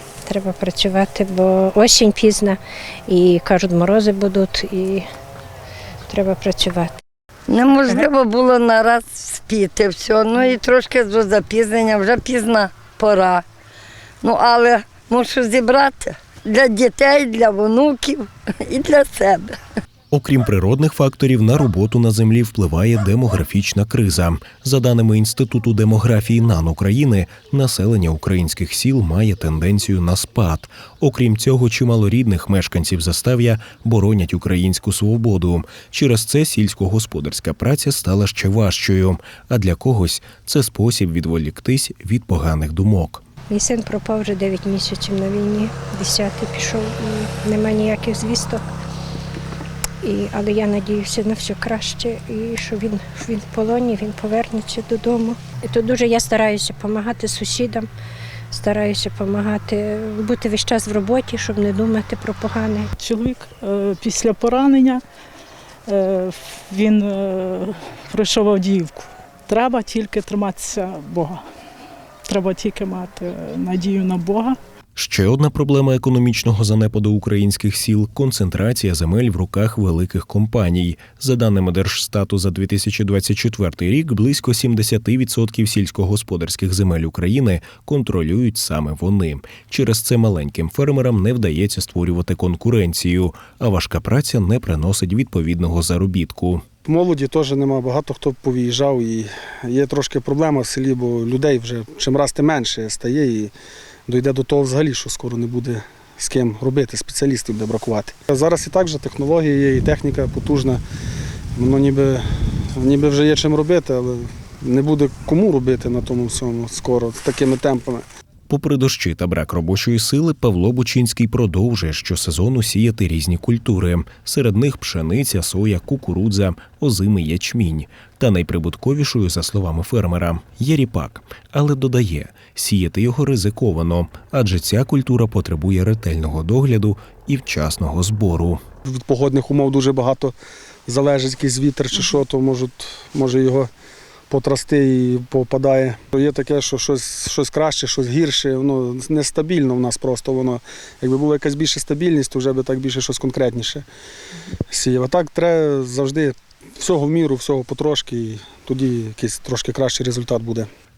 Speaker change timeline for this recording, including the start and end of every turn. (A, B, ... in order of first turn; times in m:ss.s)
0:00.2-0:05.0 A
0:06.1-0:07.0 A
0:07.5-0:13.4 B
0:14.2-0:19.6 B
0:20.1-0:43.2 C
0:43.5-0:48.6 A
0:50.0-0:57.9 A
0:58.5-1:02.9 A
1:03.0-1:05.0 D
1:05.9-1:11.4 D
1:12.3-1:14.6 D
1:15.0-1:36.6 C
1:36.8-1:43.5 E
1:44.1-1:50.8 E
1:51.6-1:52.2 E
1:52.8-1:58.0 E
1:58.5-2:18.6 C
2:18.8-2:20.3 E
2:20.8-2:23.7 E
2:24.3-2:33.8 E
2:34.7-2:40.7 E